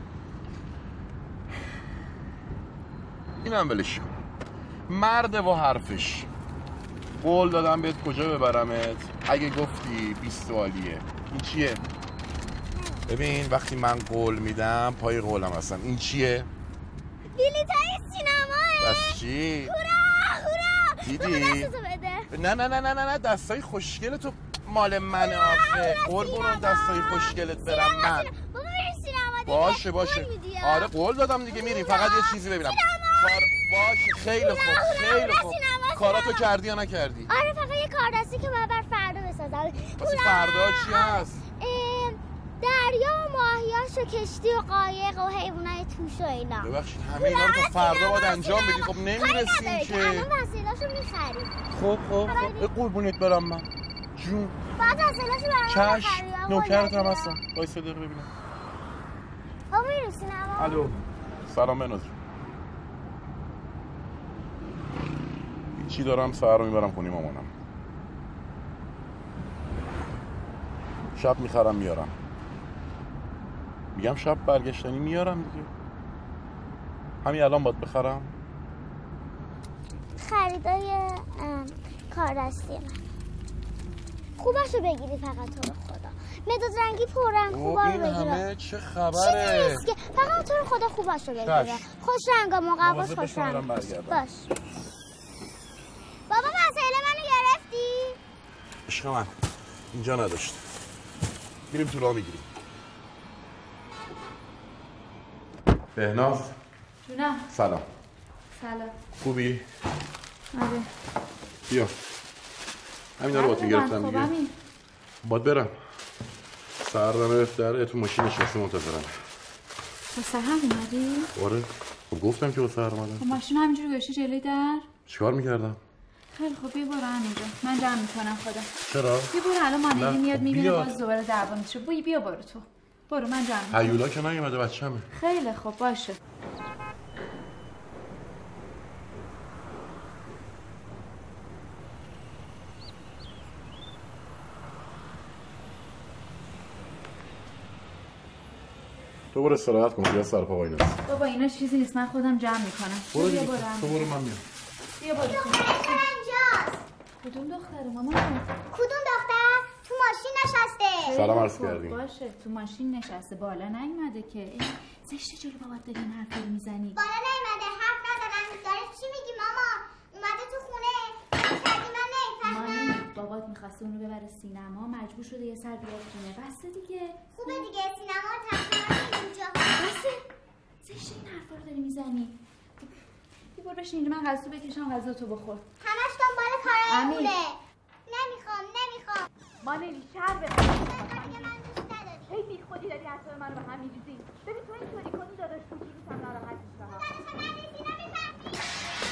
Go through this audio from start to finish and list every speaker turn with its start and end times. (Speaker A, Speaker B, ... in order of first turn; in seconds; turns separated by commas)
Speaker A: 3.4-4.2, Speaker A: 4.9-6.3, Speaker A: 7.2-11.9, Speaker A: 13.1-16.5, Speaker B: 17.3-22.3, Speaker A: 18.8-19.7, Speaker A: 21.0-21.7, Speaker A: 22.3-28.3, Speaker B: 25.1-30.9, Speaker A: 29.4-37.3, Speaker B: 31.5-36.5, Speaker B: 37.3-51.5, Speaker A: 40.0-41.4, Speaker A: 46.6-50.3, Speaker A: 51.7-54.5, Speaker B: 52.3-52.7, Speaker B: 54.8-57.4, Speaker A: 55.7-58.3, Speaker B: 59.7-60.9, Speaker A: 60.6-60.9, Speaker A: 61.5-62.1, Speaker A: 65.7-67.5, Speaker A: 71.1-72.1, Speaker A: 73.9-75.7, Speaker A: 77.2-78.3, Speaker B: 80.1-83.0, Speaker B: 84.4-88.4, Speaker A: 87.5-89.9, Speaker B: 89.1-94.5, Speaker A: 91.3-91.9, Speaker A: 92.8-94.2, Speaker B: 96.3-98.2, Speaker A: 98.9-99.3, Speaker A: 99.9-100.8, Speaker A: 101.7-102.4, Speaker A: 105.9-106.5, Speaker C: 107.0-107.5, Speaker A: 107.5-107.8, Speaker C: 108.5-108.9, Speaker A: 109.2-109.6, Speaker C: 110.5-110.9, Speaker A: 113.2-114.3, Speaker C: 113.3-114.5, Speaker A: 115.2-115.7, Speaker A: 116.8-119.2, Speaker C: 120.1-121.3, Speaker A: 121.3-123.4, Speaker C: 123.2-124.9, Speaker A: 125.1-125.8, Speaker C: 126.3-128.7, Speaker A: 128.9-129.3, Speaker C: 129.3-134.0, Speaker A: 129.9-131.0, Speaker A: 133.7-135.1, Speaker C: 135.1-136.2, Speaker A: 149.3-151.0, Speaker C: 151.1-154.2, Speaker A: 153.1-154.4, Speaker C: 155.0-156.1, Speaker B: 155.2-156.8, Speaker C: 157.2-158.6, Speaker B: 158.7-161.1, Speaker C: 161.1-167.0, Speaker A: 161.1-162.0, Speaker B: 166.9-172.9, Speaker C: 172.4-177.7, Speaker B: 177.3-179.8, Speaker C: 179.7-180.2, Speaker C: 180.8-182.4, Speaker C: 183.5-185.7, Speaker B: 185.8-189.3, Speaker C: 186.9-187.3, Speaker C: 189.6-191.6, Speaker B: 191.6-192.3, Speaker C: 192.3-197.1, Speaker B: 197.1-198.3